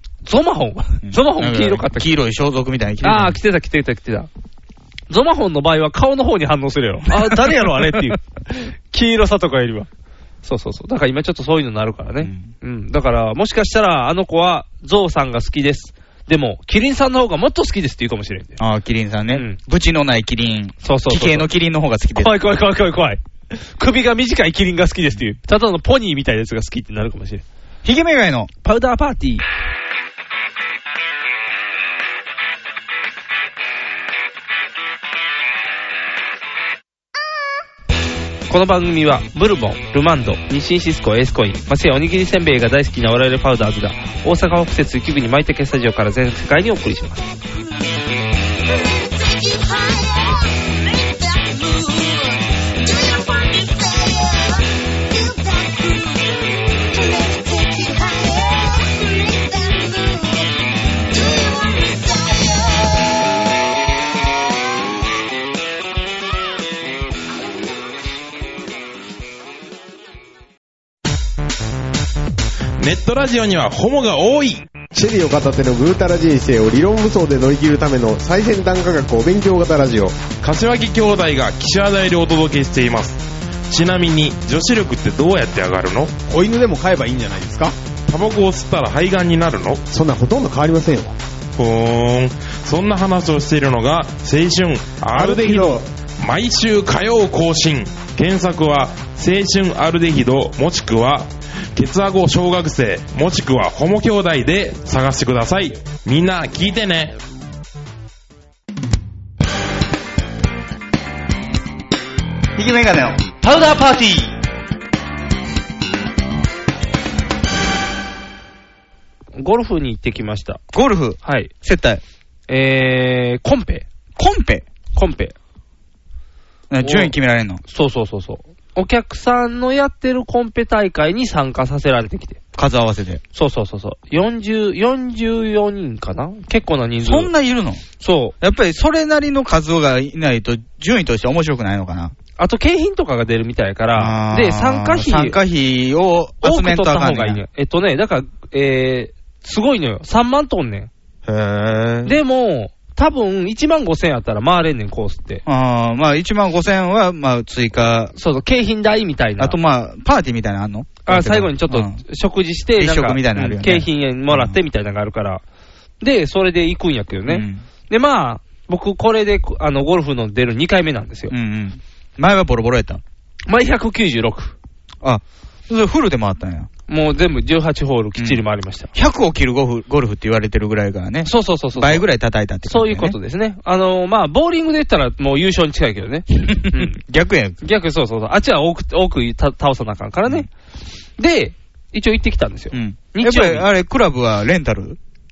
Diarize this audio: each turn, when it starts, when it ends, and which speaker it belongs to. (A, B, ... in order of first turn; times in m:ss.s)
0:00.2-0:02.1 A
0:01.0-0:03.4 B
0:03.0-0:04.3 A
0:05.1-0:09.9 A
0:07.1-0:08.1 B
0:10.4-0:18.6 A
0:12.2-0:12.5 B
0:18.6-0:22.4 B
0:19.3-0:19.6 A
0:20.8-0:21.5 A
0:22.2-0:27.4 A
0:27.8-0:28.5 B
0:28.6-0:29.4 A
0:38.5-0:47.2 A
0:48.7-1:03.1 C
1:12.8-1:14.7 D
1:14.9-1:20.2 E
1:20.4-1:26.1 D
1:26.3-1:27.8 E
1:28.1-1:29.8 D
1:29.9-1:31.2 E
1:31.6-1:47.2 D
1:35.1-1:35.8 E
1:52.6-1:53.2 B
1:53.4-1:54.3 A
1:59.3-2:00.6 A
2:00.7-2:02.0 B
2:01.2-2:01.5 A
2:02.5-2:03.8 A
2:04.2-2:04.6 B
2:05.0-2:05.4 A
2:06.7-2:07.6 B
2:06.8-2:12.4 A
2:12.6-2:13.2 B
2:13.4-2:17.3 A
2:17.0-2:17.8 B
2:18.0-2:18.4 A
2:18.4-2:22.1 B
2:22.4-2:25.4 A
2:23.9-2:27.4 B
2:26.4-2:30.9 A
2:31.3-2:32.2 B
2:32.0-2:35.4 A
2:35.5-2:38.1 B
2:38.2-2:39.6 A
2:39.4-2:42.0 B
2:41.1-2:45.4 A
2:42.8-2:44.6 B
2:46.0-2:51.3 A
2:47.3-2:47.6 B
2:51.3-2:53.0 B
2:53.5-2:54.5 A
2:55.0-2:56.7 B
2:56.9-2:58.9 A
2:58.9-3:03.2 B
3:01.2-3:02.1 A
3:02.6-3:07.0 A
3:06.5-3:07.6 B
3:07.6-3:10.5 A
3:11.2-3:13.7 A
3:12.7-3:15.0 B